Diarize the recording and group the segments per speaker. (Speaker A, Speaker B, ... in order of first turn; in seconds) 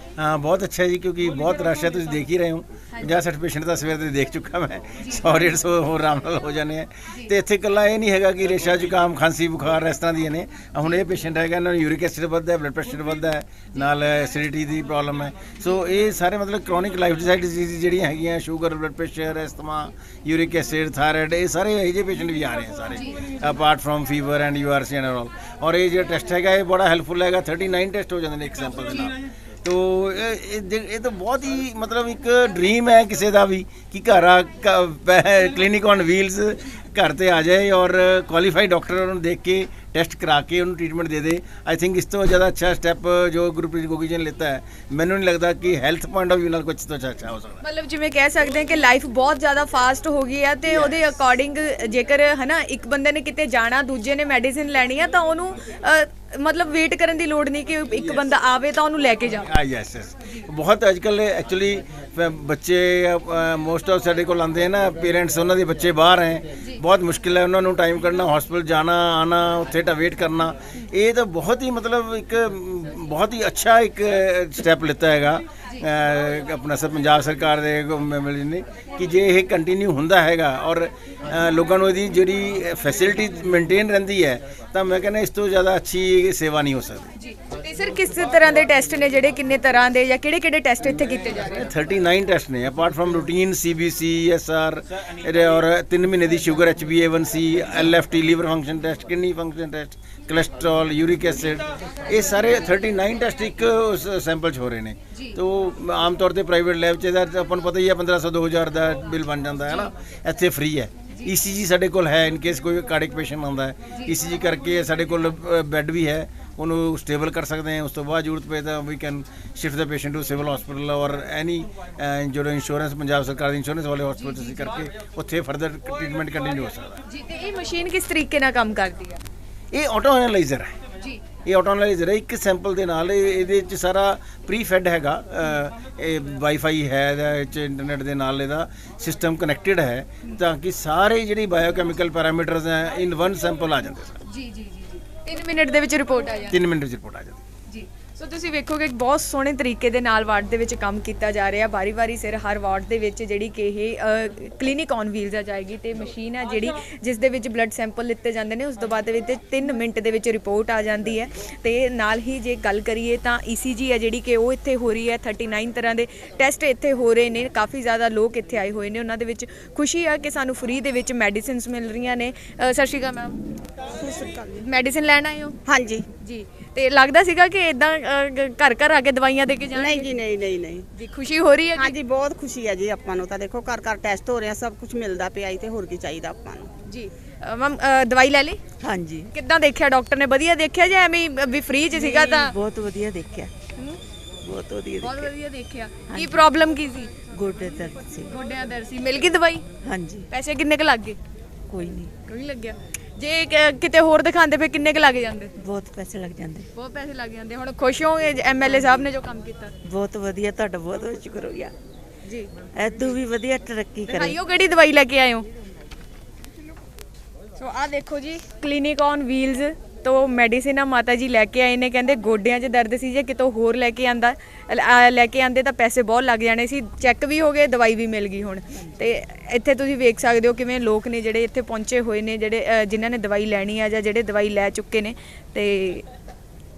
Speaker A: 0.2-47.6, 50.7-51.0, 59.4-87.1, 91.2-127.0, 129.7-130.8, 131.4-144.2, 146.5-147.4
Speaker B: 47.6-59.5, 87.2-91.6, 127.1-129.2, 144.3-146.5, 147.7-173.4, 174.6-175.6, 176.1-180.1, 180.9-181.9, 186.8-188.6, 189.3-192.5, 195.0-197.2, 198.2-199.6, 200.3-201.2, 202.2-205.5, 206.7-209.7, 212.2-213.1, 214.1-215.5, 217.6-236.1
Speaker C: 173.9-174.7, 175.7-176.1, 179.8-180.9, 181.8-186.7
Speaker D: 188.8-189.3, 192.2-193.5, 194.4-195.3, 196.1-196.4, 197.3-198.3, 199.8-200.2, 201.7-202.1, 205.6-206.7, 209.8-211.7, 212.8-214.4